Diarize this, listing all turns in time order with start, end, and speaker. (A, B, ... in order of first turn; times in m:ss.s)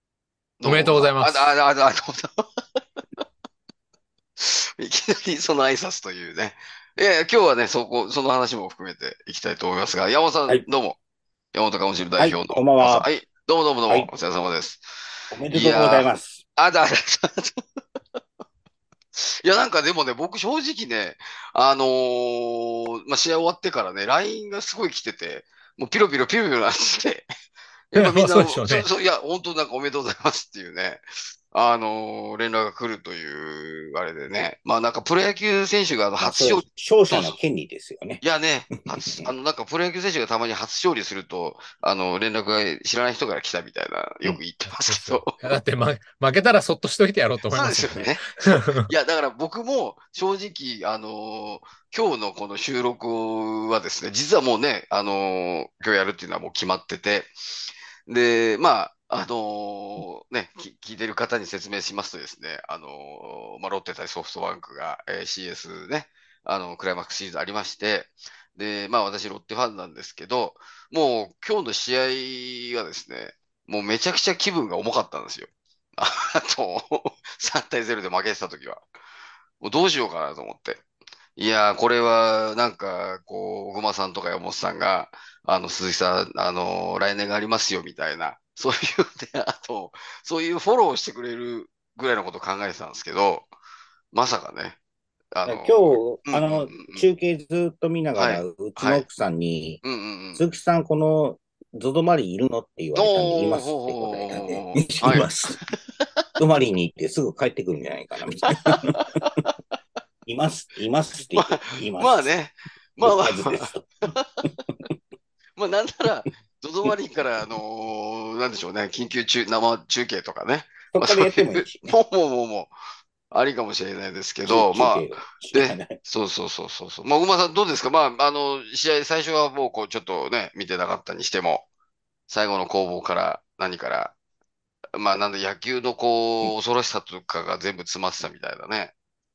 0:00.6-0:02.4 A
0:00.6-0:01.5 B
0:04.4-0:11.0 A
0:11.5-0:14.9 A
0:12.2-0:13.1 C
0:15.3-0:16.4 C
0:15.5-0:17.6 A
0:19.1-0:27.3 A
0:27.9-0:37.4 A
0:27.9-0:28.9 B
0:36.2-0:38.2 C
0:38.2-0:45.6 A
0:38.8-0:39.3 C
0:44.7-0:48.9 B
0:47.5-0:57.3 A
0:58.1-1:18.8 A
1:19.6-1:20.8 A
1:21.4-1:33.5 A
1:34.1-1:34.8 A
1:35.3-1:37.0 A
1:35.4-1:39.8 C
1:38.1-1:39.0 A
1:39.8-1:40.5 A
1:40.3-1:45.6 C
1:43.0-1:46.2 A
1:46.4-1:49.0 C
1:48.5-1:49.5 A
1:50.2-1:52.3 C
1:51.4-1:54.5 A
1:53.0-1:53.9 C
1:55.6-2:02.7 A
2:00.9-2:01.9 C
2:03.3-2:11.6 A
2:04.4-2:06.0 C
2:12.3-2:14.1 A
2:14.9-2:18.9 A